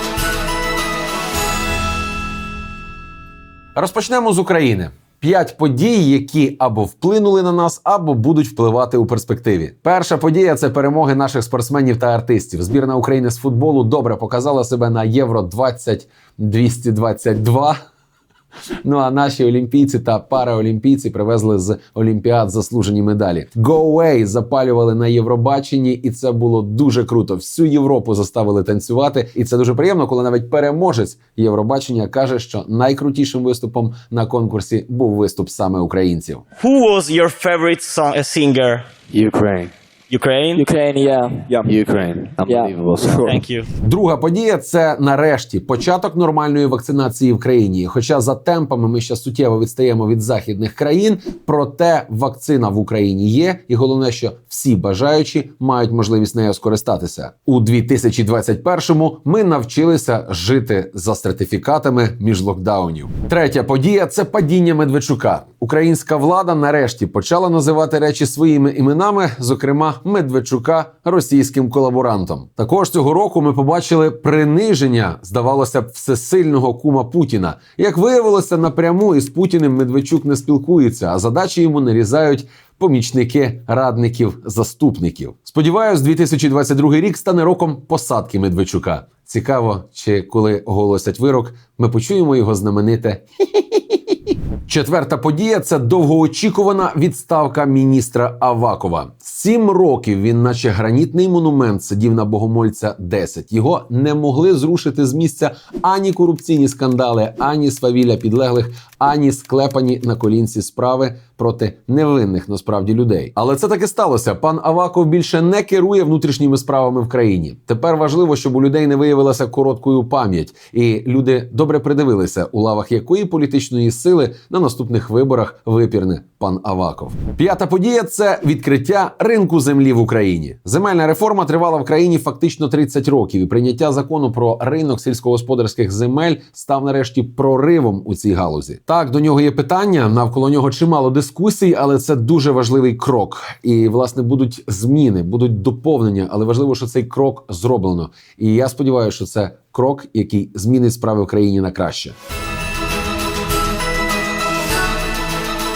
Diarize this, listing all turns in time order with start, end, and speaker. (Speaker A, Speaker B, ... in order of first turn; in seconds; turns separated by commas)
Speaker A: 3.7-17.8, Speaker A: 18.8-36.4, Speaker B: 36.6-38.9, Speaker C: 39.1-39.7, Speaker B: 40.1-40.6, Speaker D: 40.5-41.8, Speaker C: 41.6-43.4, Speaker D: 42.4-43.3, Speaker B: 43.2-43.7, Speaker A: 43.8-93.2, Speaker A: 94.6-152.2